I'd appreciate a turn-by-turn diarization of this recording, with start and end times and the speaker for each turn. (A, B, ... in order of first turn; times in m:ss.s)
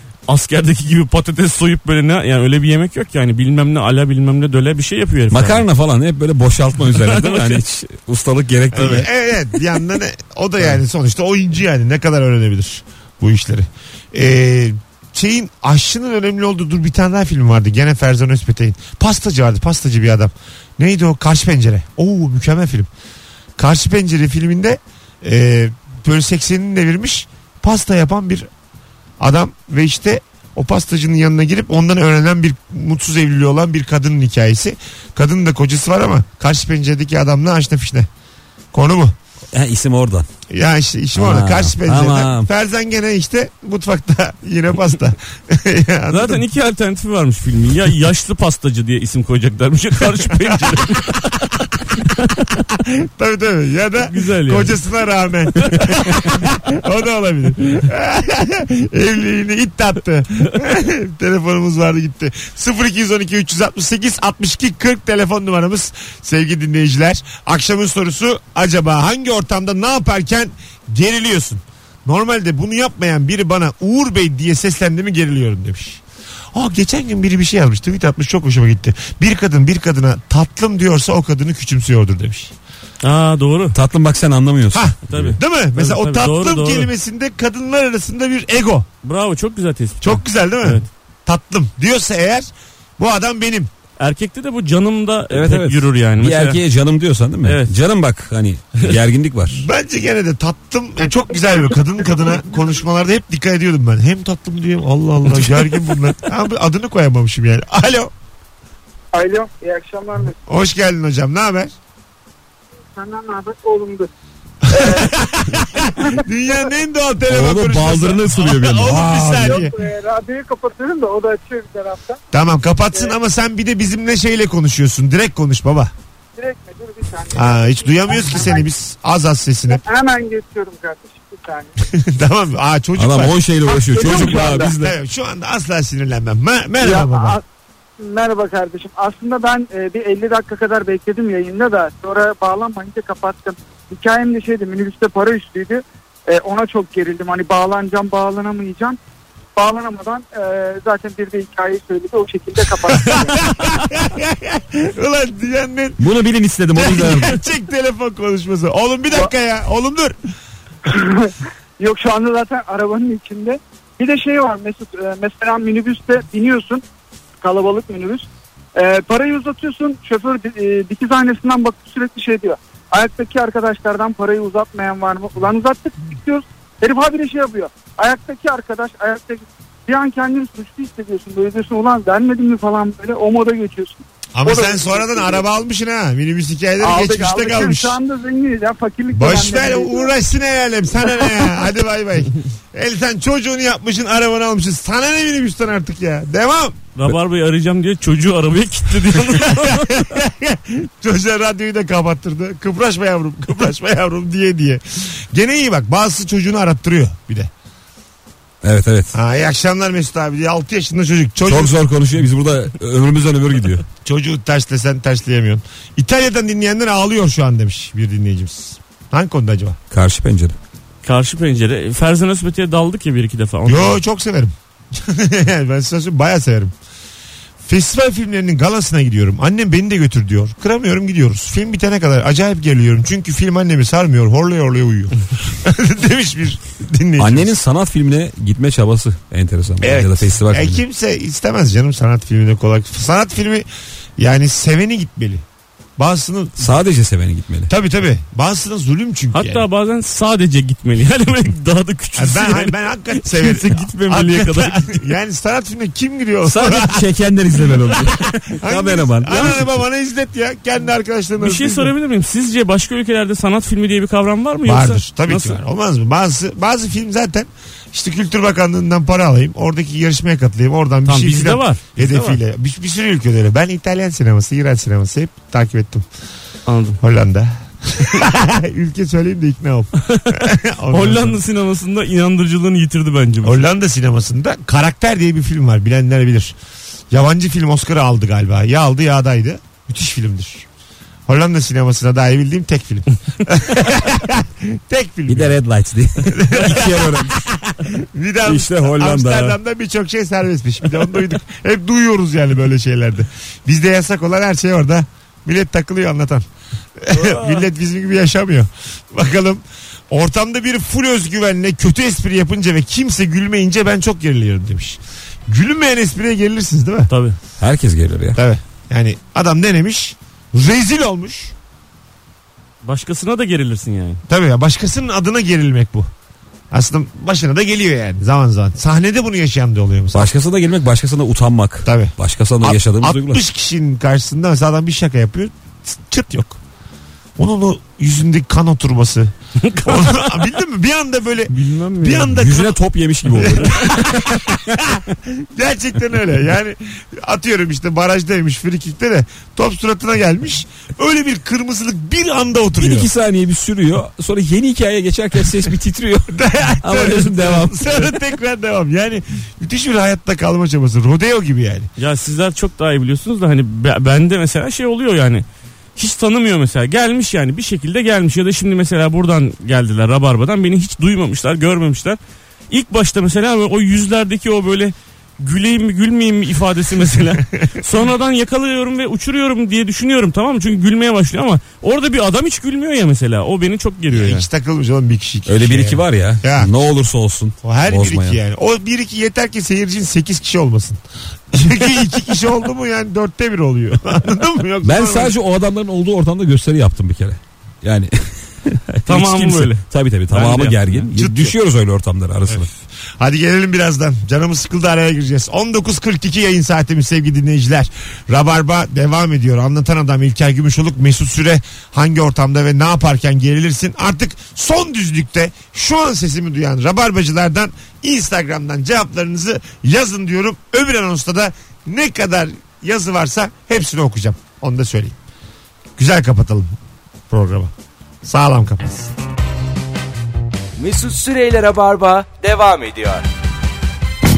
0:00.3-0:05.6 A
0:05.3-0:09.1 B
0:07.0-0:07.6 A
0:08.7-0:22.9 C
0:23.6-0:28.5 C
0:29.2-0:38.1 C
0:38.7-0:39.1 C
0:39.5-0:40.3 B
0:40.5-0:46.4 C
0:41.2-0:42.5 B
0:46.1-0:52.5 A
0:50.3-0:50.8 C
0:52.6-1:16.0 C
0:54.0-0:54.8 A
0:55.6-0:56.0 A
1:16.5-1:22.5 C
1:23.0-1:23.8 A
1:23.7-1:25.4 B
1:24.7-1:28.9 C
1:25.0-1:26.9 A
1:29.0-1:30.9 A
1:30.0-1:33.7 C
1:34.0-1:36.6 A
1:35.3-1:39.6 B
1:37.4-1:37.7 A
1:39.5-1:48.1 C
1:49.1-1:50.4 D
1:50.5-1:51.7 C
1:52.9-1:54.1 D
1:54.6-1:59.7 C
1:54.7-1:56.7 D
1:57.3-1:59.6 B
1:59.4-2:02.2 D
2:02.3-2:05.9 C
2:06.4-2:08.7 D
2:07.3-2:09.8 C
2:09.7-2:11.7 D
2:11.8-2:13.4 C
2:13.0-2:14.9 B
2:13.6-2:14.7 D
2:13.9-2:17.4 C
2:16.8-2:17.4 D
2:18.0-2:29.0 D
2:29.6-2:33.5 D
2:32.9-2:36.0 C
2:36.0-2:37.4 B
2:36.8-2:40.2 C
2:40.8-2:46.8 D
2:47.4-3:05.4 D
3:04.3-3:08.0 C
3:06.8-3:10.2 D
3:09.1-3:16.8 C
3:11.1-3:11.4 D
3:17.0-3:20.0 A
3:19.1-3:27.5 C
3:28.6-3:29.1 B
3:29.1-3:31.8 C
3:31.5-3:33.8 B
3:34.0-3:39.8 C
3:39.9-3:40.5 B
3:41.0-3:44.0 A
3:43.6-3:46.7 C
3:47.6-3:57.5 C
3:57.2-4:00.8 B
3:59.8-4:03.6 C
4:04.2-4:05.4 C
4:06.0-4:06.7 C
4:06.6-4:07.7 B
4:07.7-4:09.6 C
4:09.3-4:15.1 A
4:12.2-4:17.0 C
4:16.4-4:19.8 B
4:17.8-4:21.9 C
4:21.4-4:25.6 A
4:24.6-4:36.0 C
4:31.0-4:32.4 A
4:36.7-4:37.0 A
4:37.0-4:41.4 C
4:40.0-4:43.6 A
4:43.4-4:46.6 C
4:47.1-4:50.6 C
4:51.3-4:55.6 C
4:55.3-4:57.5 B
4:56.2-5:06.4 C
4:58.4-4:59.6 B
5:07.0-5:17.1 C
5:07.1-5:07.6 A
5:17.1-5:17.4 A
5:17.6-5:18.4 B
5:18.3-5:21.5 C
5:22.8-5:24.2 A
5:24.3-5:26.1 C
5:26.7-5:30.3 C
5:30.1-5:33.4 B
5:31.8-5:36.6 C
5:37.4-5:42.8 C
5:39.6-5:40.4 A
5:41.5-5:42.3 A
5:42.2-5:44.4 B
5:43.3-5:53.1 C
5:52.8-5:58.1 B
5:56.3-6:01.9 C
6:02.0-6:05.4 A
6:06.0-6:12.2 A
6:12.7-6:24.5 A
6:24.1-6:26.7 C
6:25.5-6:28.4 B
6:27.6-6:31.0 C
6:31.5-6:35.3 C
6:34.8-6:42.7 B
6:39.0-6:41.0 A
6:41.1-6:41.6 C
6:42.5-7:05.2 C
7:06.0-7:06.7 C
7:07.3-7:07.7 C
7:08.2-7:09.1 C
7:10.8-7:13.2 E